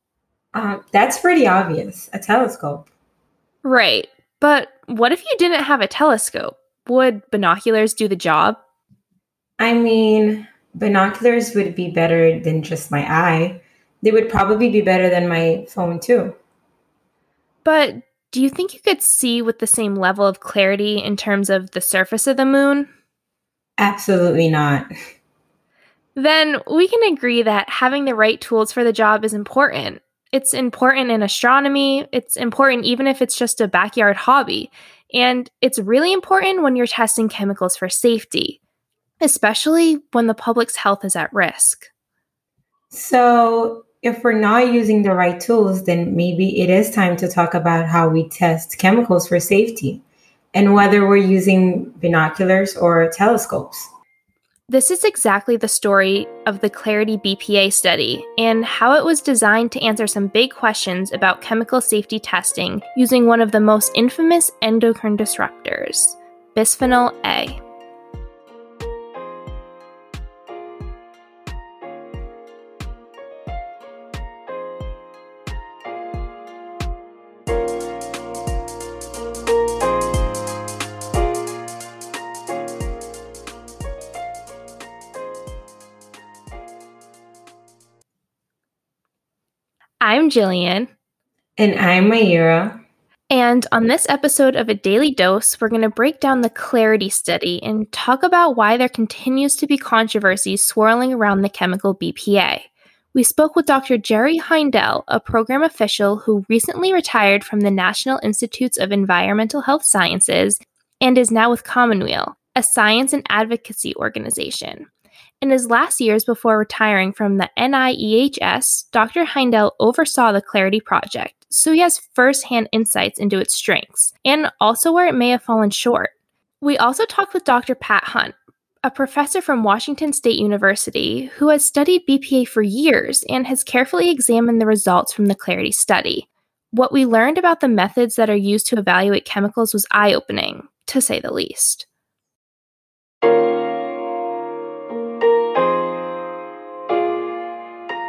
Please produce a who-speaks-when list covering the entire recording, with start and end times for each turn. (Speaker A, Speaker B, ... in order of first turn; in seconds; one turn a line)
Speaker A: 0.5-2.9
Speaker B: 3.6-8.6
Speaker A: 9.6-16.4
Speaker B: 17.6-22.9
Speaker A: 23.8-24.9
Speaker B: 26.1-38.6
Speaker B: 39.2-41.9
Speaker A: 42.9-53.9
Speaker B: 54.7-67.6
Speaker B: 90.0-90.9
Speaker A: 91.6-92.8
Speaker B: 93.3-114.9
Speaker B: 115.4-141.8